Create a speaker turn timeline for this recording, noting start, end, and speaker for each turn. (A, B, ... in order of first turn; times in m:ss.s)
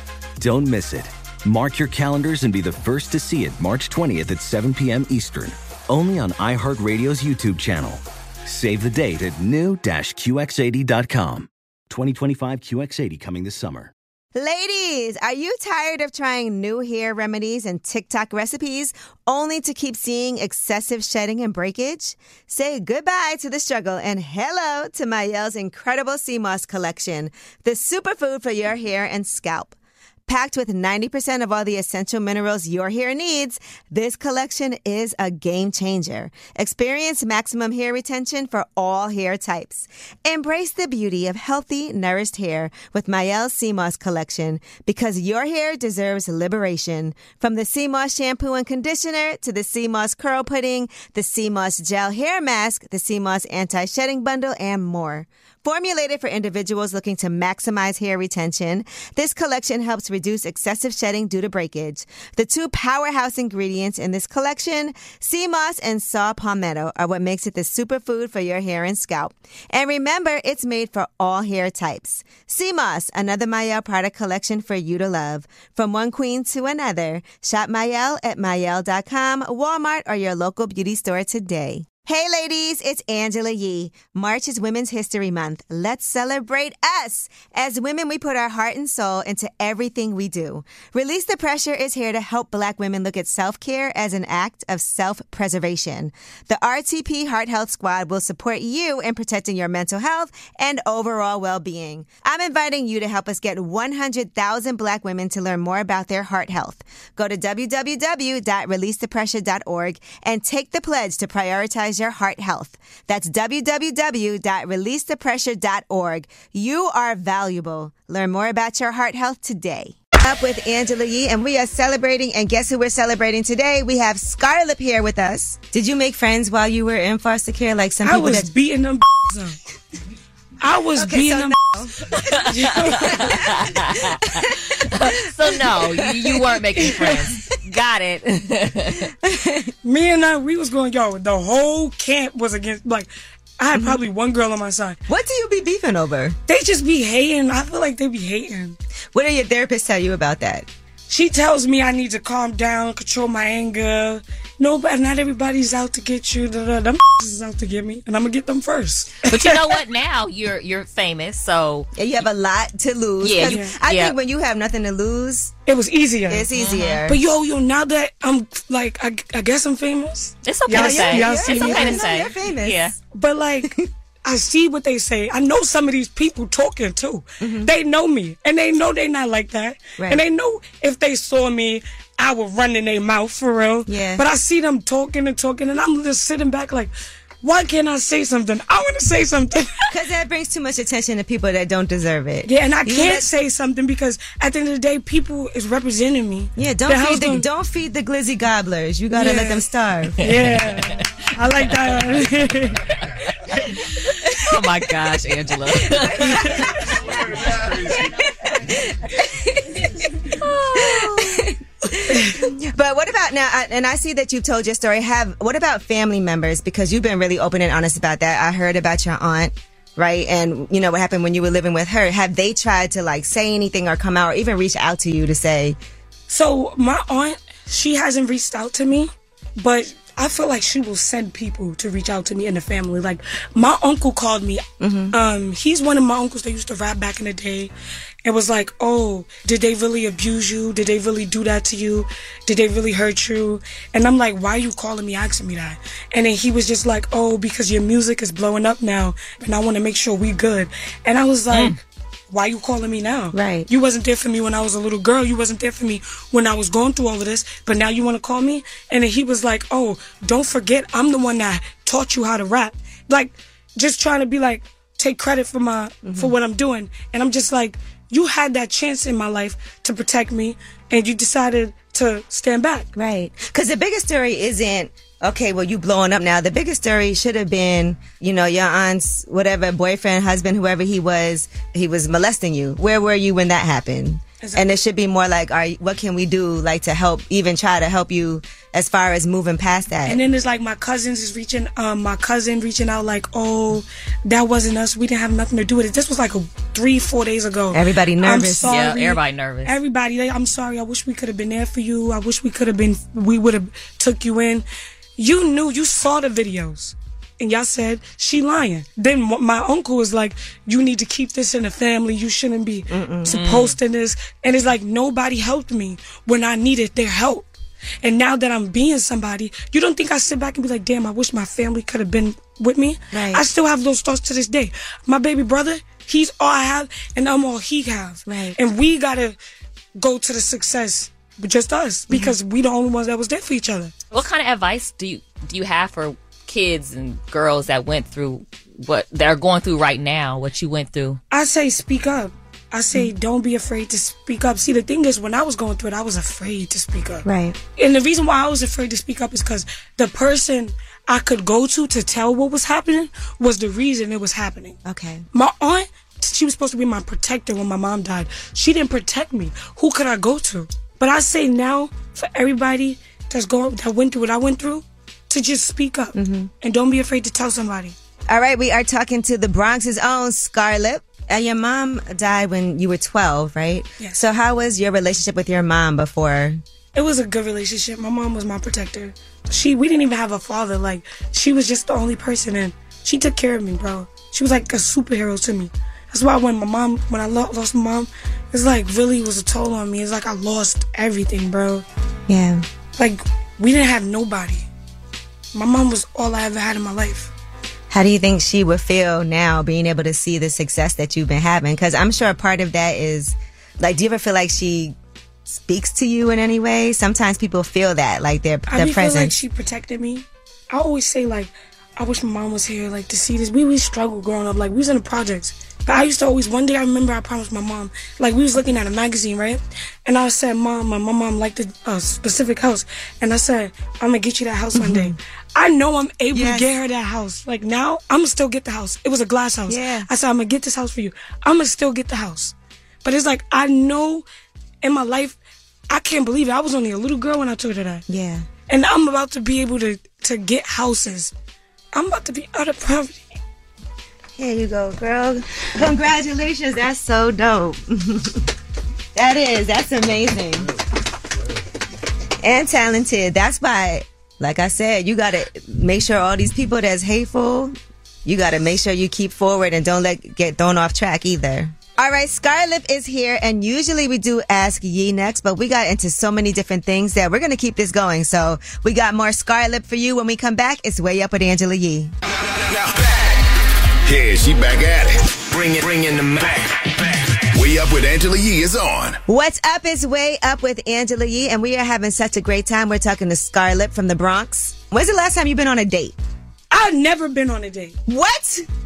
0:00.4-0:13.9 A
0:14.3-0:29.7 B
0:30.3-2:08.5 B
2:08.0-2:09.6 C
2:10.6-2:11.6 C
2:11.0-2:12.0 B
2:12.3-2:14.4 D
2:12.5-2:13.4 C
2:12.9-2:13.5 B
2:14.4-2:15.1 B
2:14.9-2:19.1 D
2:16.8-2:17.2 C
2:19.2-2:19.7 B
2:19.8-2:25.0 C
2:25.1-2:26.4 B
2:26.5-2:28.8 C
2:29.1-2:30.7 B
2:31.1-2:39.7 C
2:39.3-2:41.9 D
2:42.0-2:45.5 B
2:43.2-2:44.1 D
2:43.4-2:43.8 C
2:45.7-2:46.5 C
2:46.3-2:47.2 B
2:46.5-2:47.0 D
2:47.0-2:52.0 C
2:50.4-2:52.9 D
2:50.7-2:52.8 B
2:53.0-3:06.9 C
2:57.4-2:57.7 B
3:03.9-3:04.2 B
3:07.4-3:09.8 C
3:09.9-3:13.3 B
3:12.4-3:17.5 C
3:16.6-3:20.2 B
3:19.1-3:19.6 C
3:20.2-3:21.0 D
3:20.2-3:22.8 C
3:24.5-3:26.5 D
3:25.9-3:27.0 B
3:26.2-3:26.6 C
3:28.5-3:30.0 B
3:30.4-3:31.4 D
3:30.7-3:45.8 B
3:46.3-3:57.7 C
3:54.8-3:55.2 B
3:58.2-4:11.8 C
4:12.3-4:32.9 C
4:13.3-4:13.7 B
4:26.0-4:26.3 B
4:33.0-4:50.2 B
4:44.4-4:44.7 C
4:50.0-5:04.6 C
4:57.7-4:58.7 B
4:58.7-4:59.7 D
5:05.2-5:17.5 C
5:12.9-5:13.3 B
5:13.3-5:13.8 D
5:18.0-5:29.4 C
5:23.1-5:23.4 B
5:28.3-5:28.6 B
5:30.0-5:34.1 C
5:32.1-5:32.4 B
5:34.1-5:41.2 D
5:41.3-5:47.2 C
5:47.2-5:47.6 B
5:47.8-5:54.8 C
5:54.8-5:55.2 B
5:55.3-6:07.9 C
6:06.1-6:06.5 B
6:08.3-6:16.6 B
6:16.9-6:31.8 C
6:32.3-6:32.6 B
6:33.0-6:34.7 C
6:35.5-6:37.3 C
6:37.9-6:45.0 B
6:45.5-6:49.3 B
6:48.7-7:14.2 C
7:04.8-7:05.1 B
7:06.3-7:06.7 B
7:09.7-7:10.1 B
7:14.8-7:15.4 C
7:15.9-7:18.0 C
7:18.1-7:18.5 B
7:18.7-7:21.3 C
7:21.9-7:23.2 C
7:24.4-7:28.4 B
7:29.1-7:30.7 B
7:32.4-7:52.1 B
7:52.7-7:53.2 E
7:54.0-7:59.2 E
7:59.3-8:06.2 B
8:06.7-8:08.0 C
8:08.1-8:08.6 B